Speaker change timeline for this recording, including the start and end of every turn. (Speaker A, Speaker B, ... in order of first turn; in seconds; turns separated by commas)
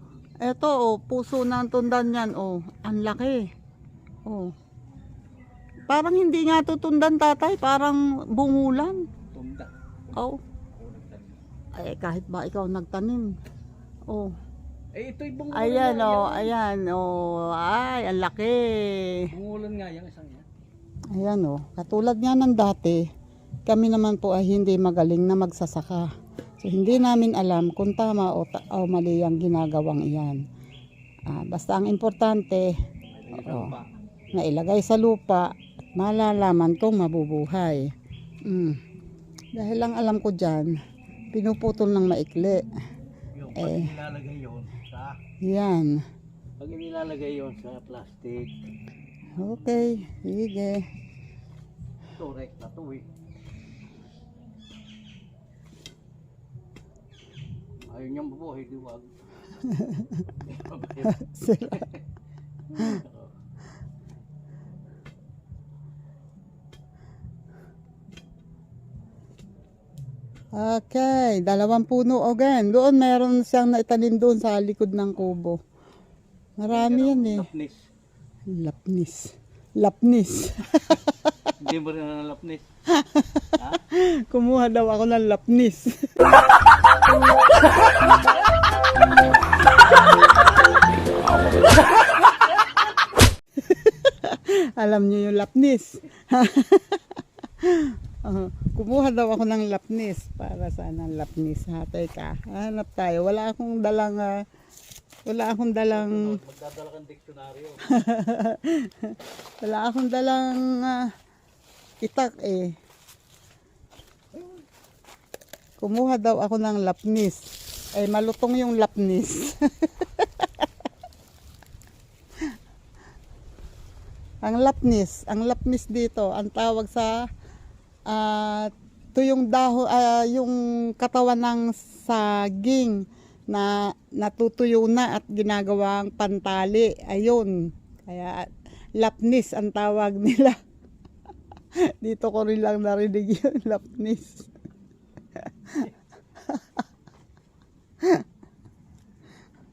Speaker A: 0.4-3.5, Speaker A: 4.2-4.5, Speaker A: 5.9-9.0, Speaker B: 9.3-9.7, Speaker A: 10.1-10.4, Speaker B: 10.7-11.4, Speaker A: 11.7-13.3, Speaker A: 14.1-14.3, Speaker B: 14.9-16.6, Speaker A: 15.5-19.3, Speaker B: 19.3-20.4, Speaker A: 21.1-23.1, Speaker A: 23.7-26.1, Speaker A: 26.6-30.4, Speaker A: 31.3-32.7, Speaker B: 33.1-33.9, Speaker A: 33.3-33.7, Speaker A: 34.3-37.9, Speaker A: 38.4-38.8, Speaker A: 39.5-40.8, Speaker A: 41.3-42.7, Speaker B: 43.3-45.2, Speaker A: 43.5-43.9, Speaker A: 45.4-46.0, Speaker B: 46.6-48.5, Speaker A: 49.3-50.9, Speaker B: 52.1-53.1, Speaker B: 57.8-59.1, Speaker A: 59.6-60.3, Speaker B: 60.3-62.0, Speaker A: 61.0-61.9, Speaker B: 62.7-63.3, Speaker A: 62.8-63.0, Speaker A: 70.5-75.6, Speaker A: 76.6-77.5, Speaker B: 76.7-77.9, Speaker A: 78.5-81.3, Speaker B: 81.6-82.7, Speaker A: 82.9-86.1, Speaker B: 83.5-83.8, Speaker A: 93.6-104.3, Speaker A: 105.3-106.4, Speaker B: 105.9-107.9, Speaker A: 107.8-111.1, Speaker A: 112.0-112.7, Speaker A: 115.8-117.4, Speaker A: 117.9-120.7, Speaker A: 124.4-127.2, Speaker A: 128.1-140.6, Speaker A: 141.9-144.5, Speaker A: 145.4-146.8